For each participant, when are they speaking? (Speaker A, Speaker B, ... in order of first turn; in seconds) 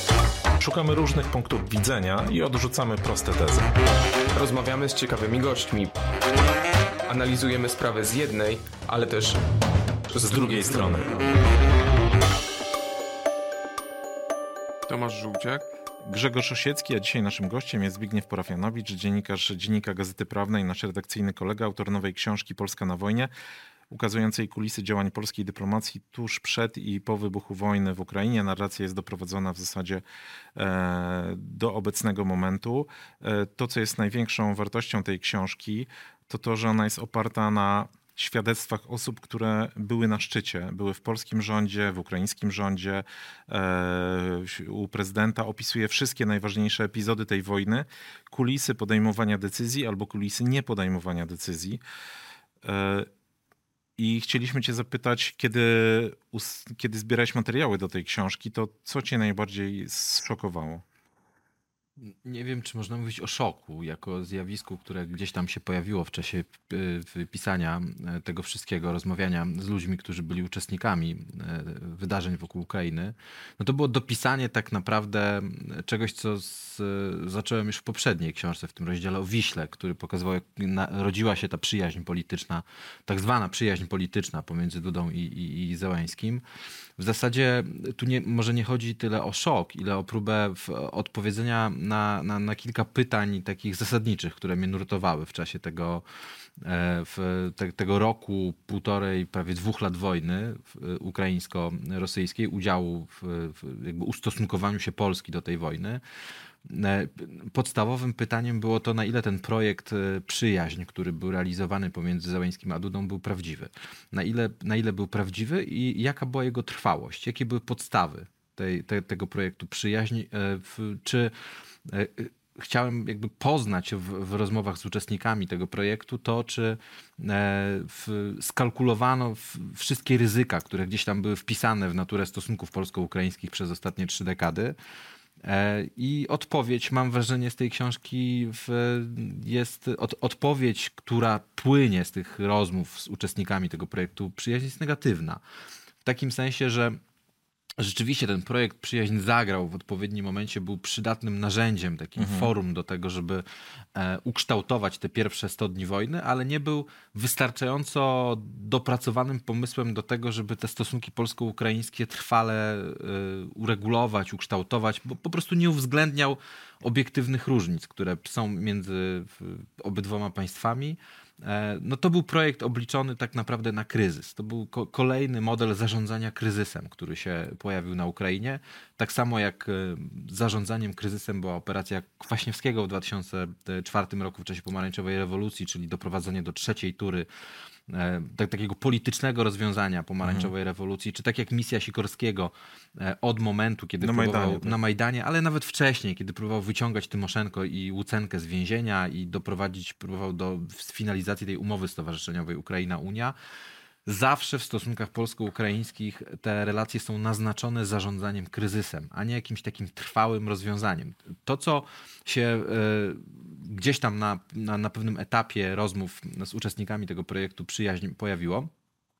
Speaker A: 0.6-3.7, 10.2-11.3, 16.0-23.3, 23.9-30.0, 30.6-51.8, 52.6-53.1, 54.0-60.8, 152.2-152.5, 190.2-190.5, 194.0-194.7
Speaker B: 4.3-6.0, 7.1-9.4, 10.1-11.1, 14.9-15.6
Speaker C: 62.0-86.4, 87.0-96.0, 96.6-106.0, 106.6-121.3, 121.8-134.7, 135.4-145.4, 146.0-147.0, 147.8-153.4, 153.9-187.3, 187.9-203.3, 204.1-218.7